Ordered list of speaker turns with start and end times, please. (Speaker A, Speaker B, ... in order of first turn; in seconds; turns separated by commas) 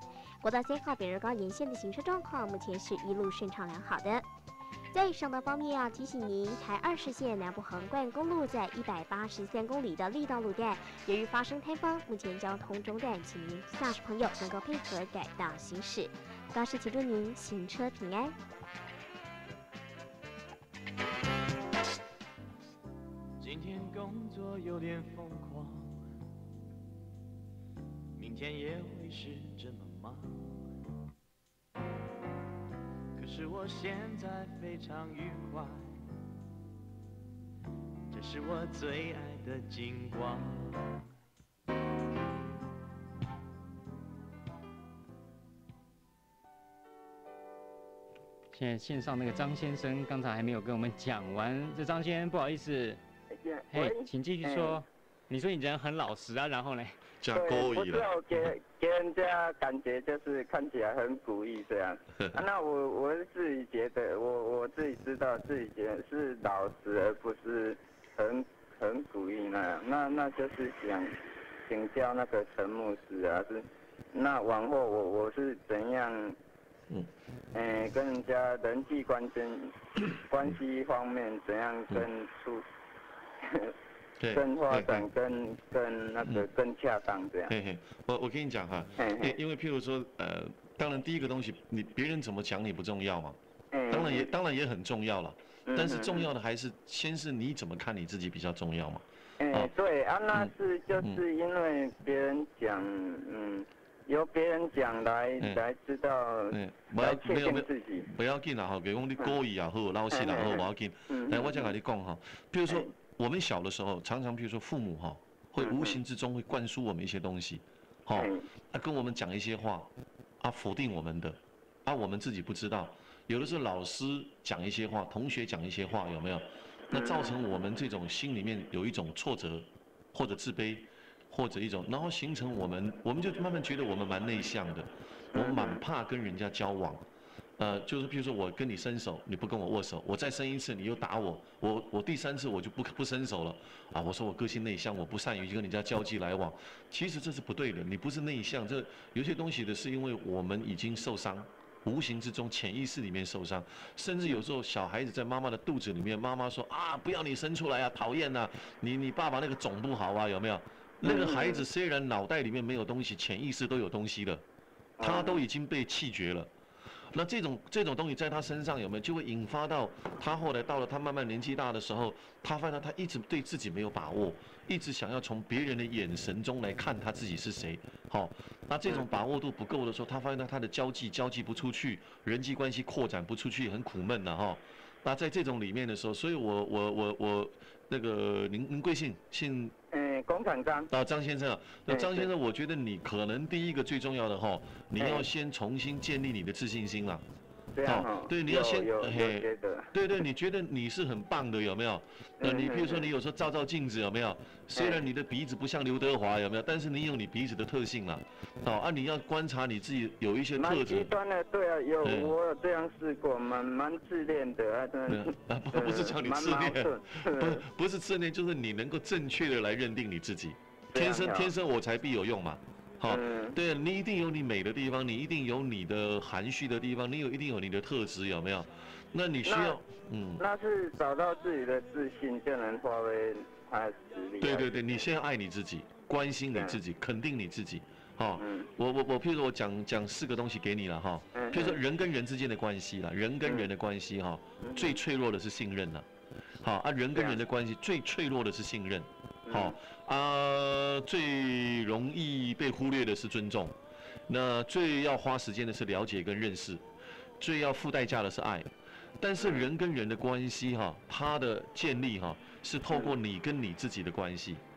Speaker A: 0.4-4.3, Speaker A: 4.9-18.4, Speaker B: 23.4-26.1, Speaker B: 28.2-30.7, Speaker B: 33.2-36.0, Speaker B: 38.1-41.0, Speaker C: 48.5-53.0, Speaker D: 53.3-54.8, Speaker C: 53.7-57.0, Speaker E: 57.2-58.5, Speaker D: 57.3-76.4, Speaker E: 62.2-62.4, Speaker D: 77.5-79.8, Speaker D: 80.3-82.6, Speaker D: 83.4-83.7, Speaker E: 84.2-85.1, Speaker D: 84.3-87.5, Speaker E: 87.5-93.4, Speaker D: 89.0-89.4, Speaker D: 93.7-94.3, Speaker E: 93.9-99.7, Speaker D: 95.7-96.3, Speaker D: 99.4-108.1, Speaker E: 100.3-101.2, Speaker E: 106.5-137.1, Speaker D: 110.1-111.8, Speaker D: 115.6-116.0, Speaker D: 118.2-118.4, Speaker D: 126.9-127.4, Speaker D: 135.3-135.8, Speaker E: 137.6-164.4, Speaker D: 161.0-161.7, Speaker D: 165.0-165.4, Speaker E: 165.0-166.5, Speaker E: 167.1-189.7, Speaker D: 189.9-190.9, Speaker E: 190.9-197.2, Speaker D: 191.9-192.3, Speaker D: 195.0-195.3, Speaker D: 197.8-199.9, Speaker E: 197.8-211.1, Speaker D: 202.4-203.1, Speaker D: 204.8-205.0, Speaker D: 210.6-217.6, Speaker E: 212.0-212.3, Speaker E: 215.1-230.4, Speaker D: 220.9-221.5, Speaker D: 223.1-223.6, Speaker D: 229.4-229.8, Speaker D: 230.4-235.0, Speaker E: 234.4-246.1, Speaker D: 236.5-236.8, Speaker D: 238.4-238.7, Speaker D: 241.3-241.8, Speaker D: 244.6-245.0, Speaker E: 246.6-253.8, Speaker D: 247.1-247.4, Speaker D: 249.5-249.8, Speaker E: 254.3-256.8, Speaker E: 257.4-264.6, Speaker D: 259.4-259.7